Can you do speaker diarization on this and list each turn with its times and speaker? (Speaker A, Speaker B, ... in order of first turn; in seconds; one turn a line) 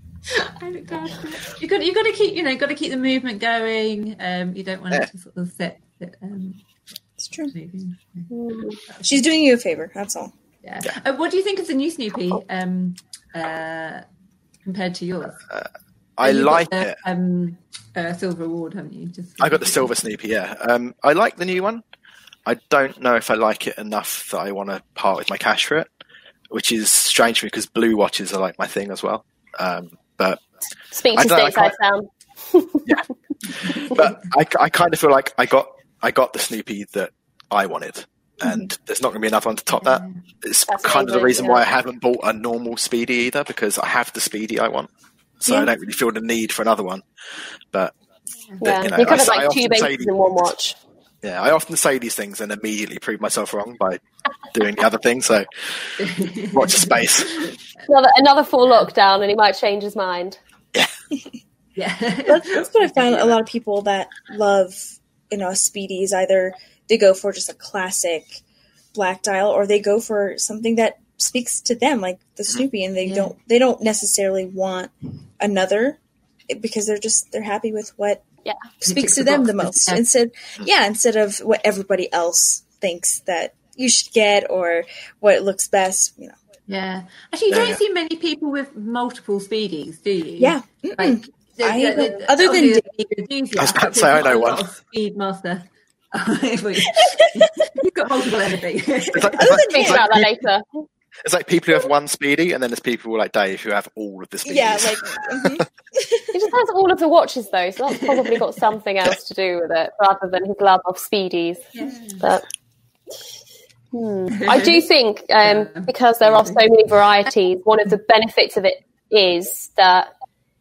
Speaker A: 0.3-6.6
Speaker B: 7.2-7.5
Speaker A: 7.5-8.3
Speaker C: 8.3-8.8
Speaker A: 8.9-9.2
Speaker B: 9.0-10.3
Speaker A: 10.6-14.0
Speaker A: 14.6-15.4
Speaker D: 15.5-17.0
Speaker A: 16.2-19.9
Speaker D: 19.4-21.8
Speaker D: 22.4-25.9
Speaker D: 26.5-30.4
Speaker C: 30.9-32.9
Speaker D: 31.1-31.7
Speaker D: 33.6-44.9
Speaker B: 38.4-38.7
Speaker A: 39.8-40.2
Speaker C: 40.7-41.6
Speaker D: 45.4-47.0
Speaker B: 45.5-45.7
Speaker D: 48.6-50.1
Speaker C: 48.6-50.8
Speaker D: 51.2-54.0
Speaker D: 54.5-55.7
Speaker A: 56.0-57.6
Speaker D: 56.5-57.4
Speaker C: 57.9-60.4
Speaker A: 61.8-63.4
Speaker B: 62.2-68.4
Speaker B: 68.9-78.2
Speaker A: 73.0-73.3
Speaker B: 78.8-86.3
Speaker A: 78.8-80.0
Speaker A: 86.7-99.6
Speaker D: 87.5-87.8
Speaker B: 90.4-92.8
Speaker D: 93.6-94.6
Speaker D: 99.0-100.2
Speaker B: 99.4-100.0
Speaker C: 99.5-100.8
Speaker D: 101.2-105.6
Speaker B: 104.4-106.3
Speaker C: 106.3-112.4
Speaker A: 107.9-108.4
Speaker A: 111.7-112.2
Speaker C: 113.9-120.1
Speaker A: 114.3-114.8
Speaker A: 115.4-116.6